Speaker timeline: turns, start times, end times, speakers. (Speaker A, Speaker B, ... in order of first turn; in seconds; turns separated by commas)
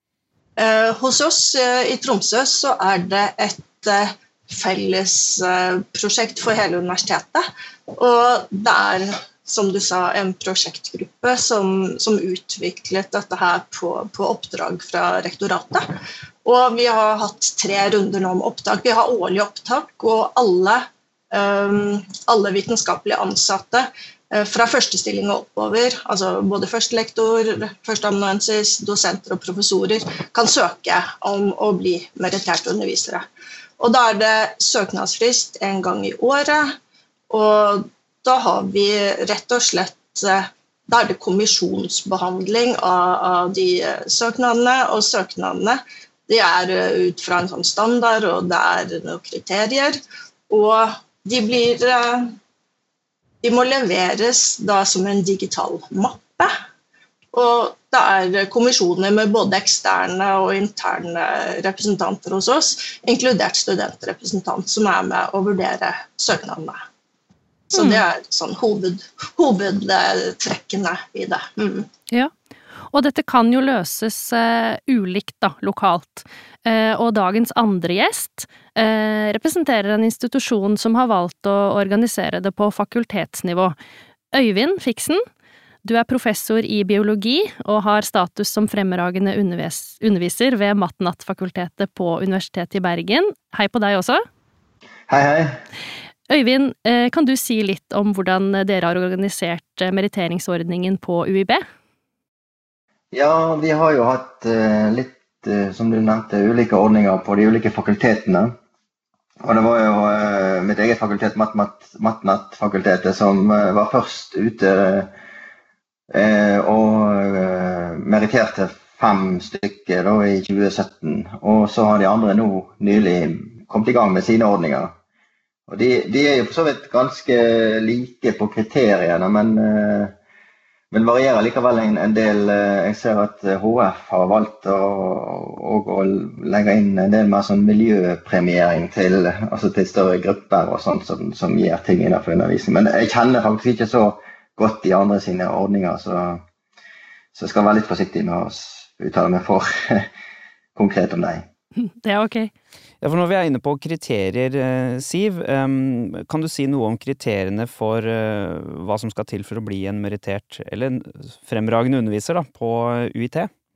Speaker A: 0.6-15.8, Speaker A: 16.4-33.2, Speaker A: 33.8-36.7, Speaker A: 37.3-52.3, Speaker A: 53.4-56.5, Speaker A: 57.3-66.8, Speaker A: 67.7-71.9, Speaker B: 67.7-68.0, Speaker B: 72.9-83.7, Speaker B: 84.3-85.2, Speaker B: 85.8-94.2, Speaker C: 95.1-95.6, Speaker B: 96.3-101.6, Speaker C: 103.1-108.5, Speaker C: 109.4-115.1, Speaker C: 116.1-124.9, Speaker C: 125.7-130.1, Speaker C: 130.9-146.4, Speaker C: 147.3-150.1, Speaker C: 150.8-151.4, Speaker B: 151.8-152.5, Speaker D: 153.0-163.5